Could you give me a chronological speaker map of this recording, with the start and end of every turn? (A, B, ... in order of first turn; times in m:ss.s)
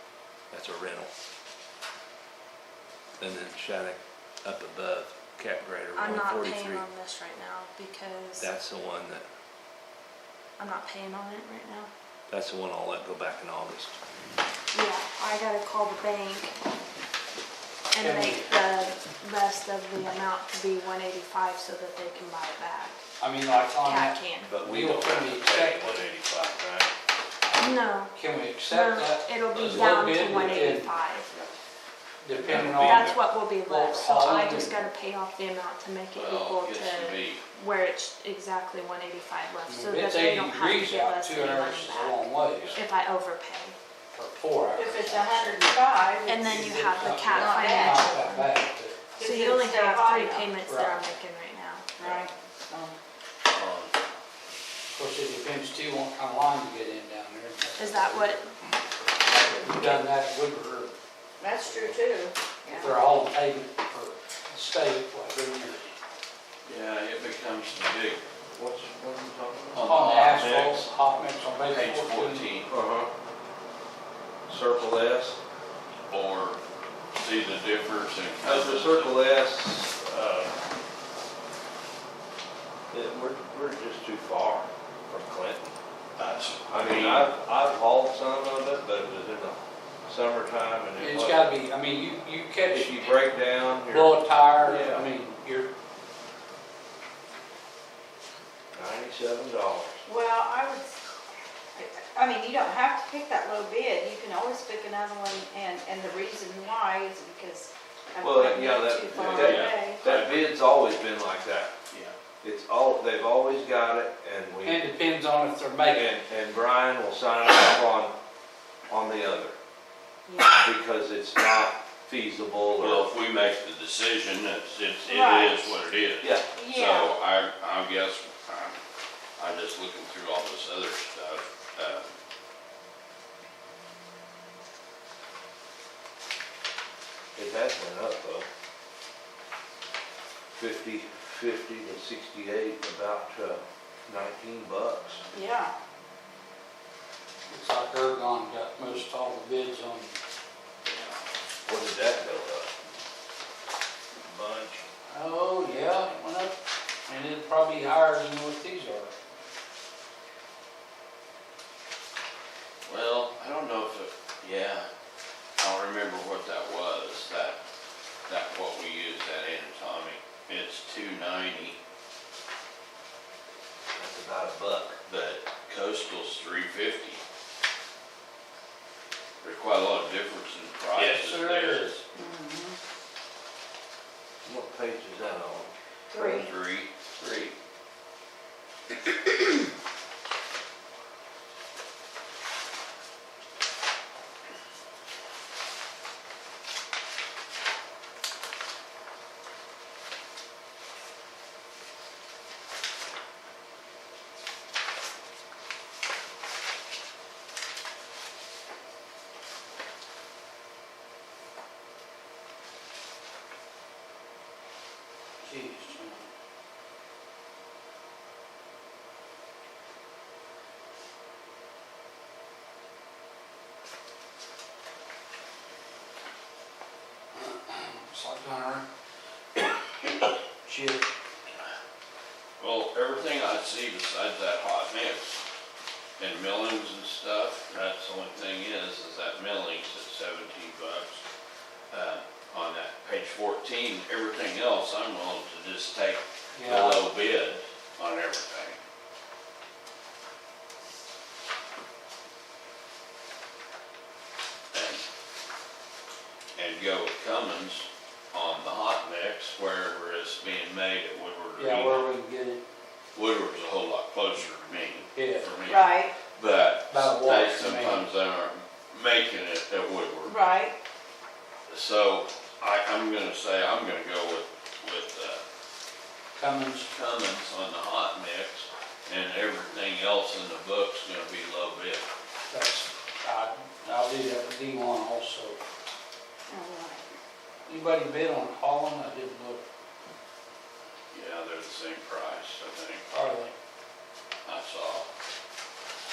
0:00.5-0:01.1 A
0:03.2-0:06.8 A
0:06.0-0:08.5 B
0:08.4-0:09.3 A
0:10.6-0:11.9 B
0:12.3-0:14.0 A
0:14.7-0:16.6 B
0:17.9-0:23.0 B
0:18.0-0:18.5 C
0:23.2-0:26.0 C
0:23.8-0:24.5 B
0:24.4-0:26.9 A
0:27.6-0:31.3 B
0:28.1-0:30.9 C
0:29.5-0:30.7 D
0:32.2-0:34.7 C
0:32.3-0:33.2 A
0:32.5-0:43.8 B
0:36.1-0:37.4 D
0:39.6-0:42.8 C
0:44.1-0:45.7 C
0:44.7-0:46.7 E
0:46.3-0:48.5 B
0:46.4-0:49.0 C
0:47.3-0:48.2 E
0:49.2-0:50.5 E
0:49.2-0:52.0 B
0:50.6-0:51.0 C
0:52.0-0:53.0 E
0:53.5-0:53.9 D
0:54.9-0:58.4 C
0:57.8-0:58.5 B
0:59.3-1:01.0 C
1:01.4-1:03.0 E
1:02.7-1:05.9 C
1:06.6-1:08.2 D
1:08.5-1:10.9 A
1:09.7-1:10.8 D
1:09.8-1:12.4 C
1:11.6-1:12.7 D
1:12.7-1:13.1 A
1:14.5-1:15.4 A
1:16.1-1:16.6 D
1:17.2-1:19.3 D
1:18.4-1:20.6 A
1:22.9-1:25.8 A
1:26.2-1:27.3 D
1:26.7-1:31.6 A
1:31.0-1:33.4 C
1:32.7-1:35.1 A
1:33.9-1:35.7 C
1:38.7-1:40.0 A
1:40.0-1:41.0 E
1:41.8-1:50.0 E
1:48.2-1:51.7 A
1:49.1-1:50.4 D
1:51.9-1:52.2 D
1:52.4-1:54.9 A
1:54.6-1:56.1 C
1:55.9-1:58.1 A
1:58.9-1:59.6 A
2:00.3-2:00.7 E
2:00.5-2:03.1 A
2:02.8-2:08.8 D
2:05.1-2:05.8 E
2:06.5-2:07.1 E
2:09.4-2:12.1 D
2:17.4-2:18.5 A
2:20.6-2:25.2 A
2:25.3-2:25.7 E
2:27.5-2:30.2 C
2:30.8-2:31.2 D
2:31.6-2:32.8 A
2:34.2-2:34.8 A
2:35.1-2:39.1 C
2:42.8-2:44.9 D
2:45.6-2:47.6 D
2:48.3-2:51.8 D
2:53.9-2:55.0 A
2:55.1-2:57.2 D
2:59.4-3:02.0 D
3:01.0-3:01.7 C
3:01.0-3:02.0 A
3:02.1-3:02.8 E
3:04.4-3:05.7 A
3:06.1-3:06.5 E
3:06.1-3:07.5 D
3:09.1-3:09.4 D
3:35.4-3:36.3 C
3:47.3-3:48.9 C
3:50.6-3:51.0 C
3:52.6-3:55.4 D
3:56.2-4:01.2 D
4:01.9-4:08.8 D
4:06.5-4:07.1 C
4:14.7-4:15.0 D
4:16.6-4:22.1 D
4:21.6-4:22.6 C
4:23.2-4:30.5 D
4:25.2-4:25.5 C
4:25.6-4:26.1 E
4:26.9-4:28.1 C
4:30.2-4:30.8 E
4:31.7-4:35.4 D
4:36.4-4:36.9 C
4:36.9-4:42.1 D
4:42.5-4:45.6 C
4:46.5-4:47.2 E
4:47.7-4:49.6 C
4:51.1-4:53.0 D
4:53.1-4:53.5 C
4:54.4-4:55.1 D